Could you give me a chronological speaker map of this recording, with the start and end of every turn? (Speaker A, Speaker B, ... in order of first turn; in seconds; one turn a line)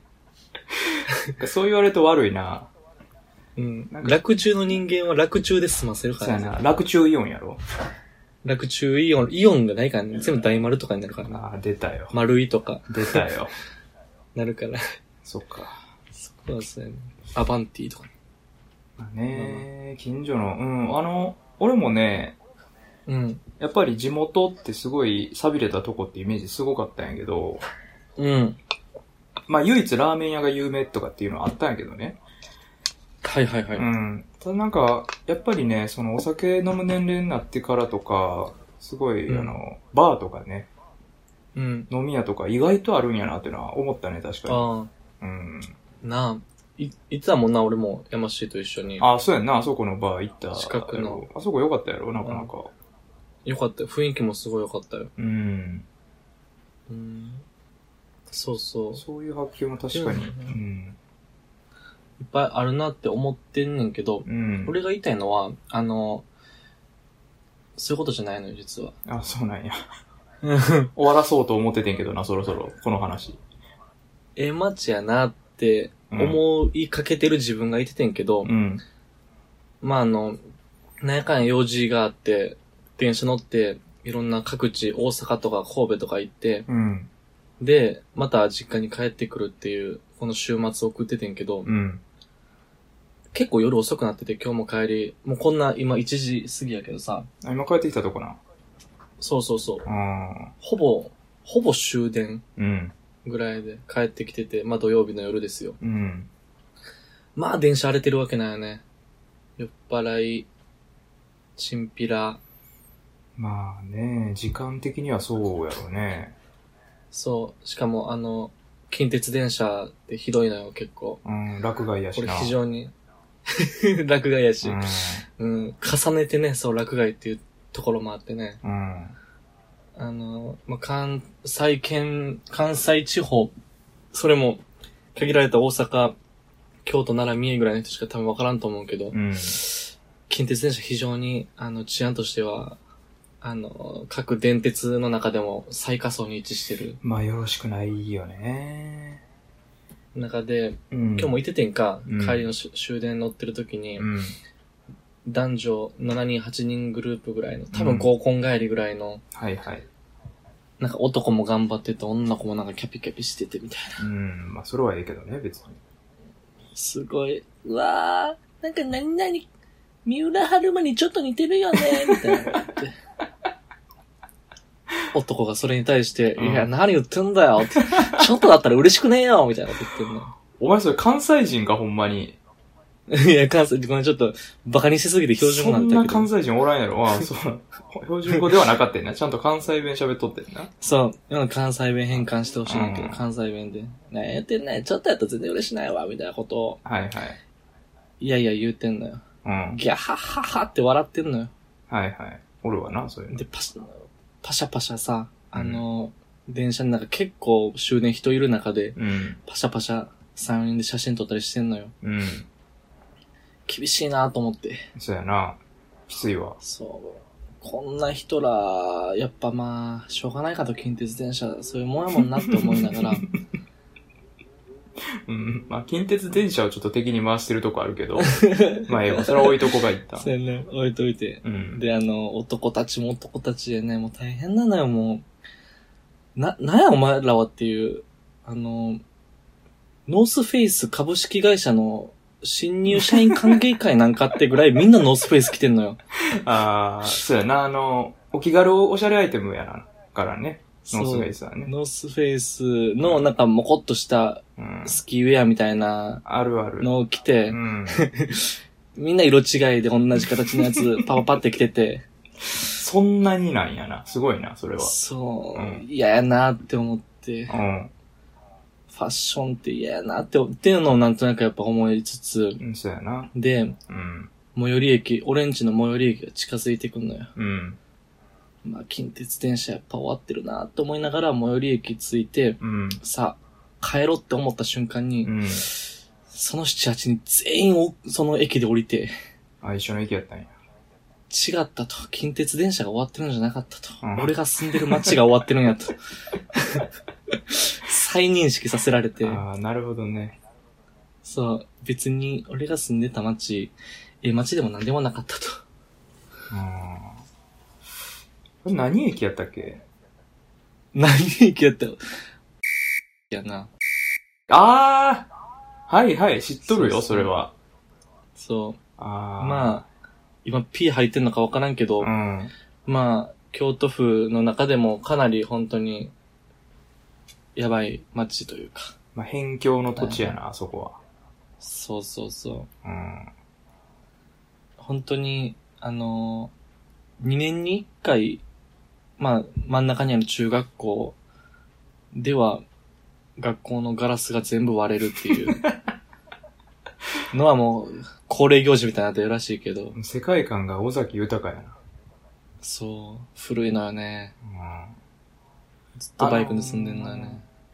Speaker A: 1.4-2.7
Speaker B: 3.5-6.6
Speaker A: 3.9-4.2
Speaker A: 6.2-7.6
Speaker B: 8.4-11.4
Speaker A: 11.3-12.1
Speaker B: 12.1-13.3
Speaker A: 12.9-13.5
Speaker B: 14.3-14.8
Speaker A: 15.2-15.8
Speaker B: 16.1-18.1
Speaker A: 19.0-22.4
Speaker B: 19.3-19.6
Speaker B: 23.1-23.4
Speaker A: 23.6-27.6
Speaker B: 28.1-28.6
Speaker A: 29.5-32.2
Speaker B: 33.2-33.9
Speaker A: 33.7-40.7
Speaker B: 39.3-39.6
Speaker B: 41.5-41.9
Speaker A: 41.9-44.6
Speaker B: 44.5-44.9
Speaker A: 45.2-45.7
Speaker B: 46.0-49.1
Speaker A: 49.0-52.7
Speaker B: 50.5-51.2
Speaker B: 52.2-52.5
Speaker B: 53.4-55.1
Speaker A: 55.2-55.9
Speaker B: 56.9-57.5
Speaker B: 58.3-59.0
Speaker A: 59.0-61.0
Speaker B: 59.9-60.5
Speaker B: 62.2-66.2
Speaker A: 64.2-64.8
Speaker B: 67.8-69.0
Speaker A: 69.0-69.8
Speaker B: 70.4-70.9
Speaker A: 70.9-73.4
Speaker B: 74.3-78.5
Speaker A: 76.1-76.4
Speaker A: 78.4-78.8
Speaker B: 79.8-80.4
Speaker B: 81.0-86.7
Speaker A: 86.7-87.1
Speaker B: 87.6-91.7
Speaker A: 91.6-92.0
Speaker B: 93.3-97.3
Speaker A: 97.4-98.4
Speaker B: 99.2-99.9
Speaker A: 99.8-100.5
Speaker B: 100.6-102.4
Speaker A: 102.6-102.9
Speaker B: 103.2-105.8
Speaker A: 105.8-106.3
Speaker B: 107.3-108.8
Speaker B: 109.6-110.5
Speaker B: 111.6-112.4
Speaker A: 113.4-116.3
Speaker B: 117.1-121.2
Speaker A: 121.2-122.5
Speaker B: 122.2-122.9
Speaker B: 123.5-124.8
Speaker A: 124.6-125.2
Speaker B: 125.4-128.6
Speaker A: 128.6-129.2
Speaker B: 129.9-133.5
Speaker B: 134.1-134.6
Speaker B: 135.1-136.2
Speaker B: 136.8-142.8
Speaker A: 139.1-139.6
Speaker B: 143.4-147.0
Speaker A: 147.0-149.2
Speaker B: 150.1-154.1
Speaker A: 150.9-151.4
Speaker A: 152.1-152.5
Speaker A: 154.0-154.4
Speaker B: 155.2-159.2
Speaker A: 157.7-158.1
Speaker A: 159.3-159.8
Speaker B: 160.8-164.0
Speaker A: 164.0-165.8
Speaker B: 166.7-169.5
Speaker B: 170.0-172.9
Speaker A: 172.1-172.7
Speaker B: 175.1-180.3
Speaker A: 176.3-176.7
Speaker A: 177.8-178.2
Speaker A: 180.4-182.4
Speaker B: 183.1-186.3
Speaker A: 185.4-190.7
Speaker B: 190.8-196.8
Speaker A: 192.1-193.2
Speaker A: 196.8-197.4
Speaker B: 198.2-199.2
Speaker A: 199.4-199.8
Speaker B: 199.7-201.5
Speaker A: 201.9-203.4
Speaker B: 203.3-211.9
Speaker A: 205.5-205.8
Speaker A: 208.9-209.4
Speaker A: 212.0-212.5
Speaker B: 213.7-214.9
Speaker A: 214.9-216.6
Speaker B: 216.6-223.2
Speaker A: 222.5-223.3
Speaker A: 225.2-230.3
Speaker B: 228.2-229.7
Speaker B: 230.2-235.2
Speaker A: 231.4-231.8
Speaker B: 236.3-239.0
Speaker B: 240.1-246.0
Speaker A: 243.0-243.6
Speaker A: 246.3-251.7
Speaker B: 250.9-256.2
Speaker A: 253.0-253.3
Speaker A: 254.6-255.0
Speaker A: 256.2-256.9
Speaker B: 256.8-262.0
Speaker A: 257.5-258.1
Speaker A: 260.5-261.0
Speaker A: 262.7-264.9
Speaker B: 264.8-267.5
Speaker A: 265.5-265.8
Speaker A: 267.5-267.9
Speaker B: 268.9-272.6
Speaker A: 272.6-273.3
Speaker B: 273.3-273.8
Speaker A: 273.9-274.3
Speaker B: 274.5-277.3
Speaker A: 277.4-277.8
Speaker B: 278.6-289.1
Speaker A: 282.6-283.0
Speaker A: 285.2-285.7
Speaker A: 289.6-290.5
Speaker B: 291.3-295.9
Speaker A: 294.0-295.2
Speaker B: 296.5-299.4
Speaker A: 299.2-300.4
Speaker B: 301.2-305.6
Speaker A: 306.5-307.2
Speaker A: 308.6-309.8
Speaker B: 310.9-312.1
Speaker B: 313.3-313.7
Speaker A: 314.5-315.3
Speaker A: 315.9-317.5
Speaker B: 316.6-317.3
Speaker B: 318.4-318.8
Speaker A: 319.0-319.8
Speaker B: 319.4-319.8
Speaker B: 320.4-322.1
Speaker A: 322.0-322.5
Speaker B: 322.9-326.1
Speaker B: 327.6-328.9
Speaker A: 329.1-331.0
Speaker B: 330.0-330.3
Speaker B: 331.6-332.7
Speaker A: 332.8-333.3
Speaker B: 334.8-336.5
Speaker B: 337.2-338.4
Speaker B: 339.2-341.2
Speaker B: 342.1-342.6
Speaker B: 343.4-345.6
Speaker B: 347.3-349.9
Speaker A: 349.9-351.8
Speaker B: 352.6-354.3
Speaker A: 354.4-355.0
Speaker B: 356.0-357.4
Speaker A: 356.2-357.4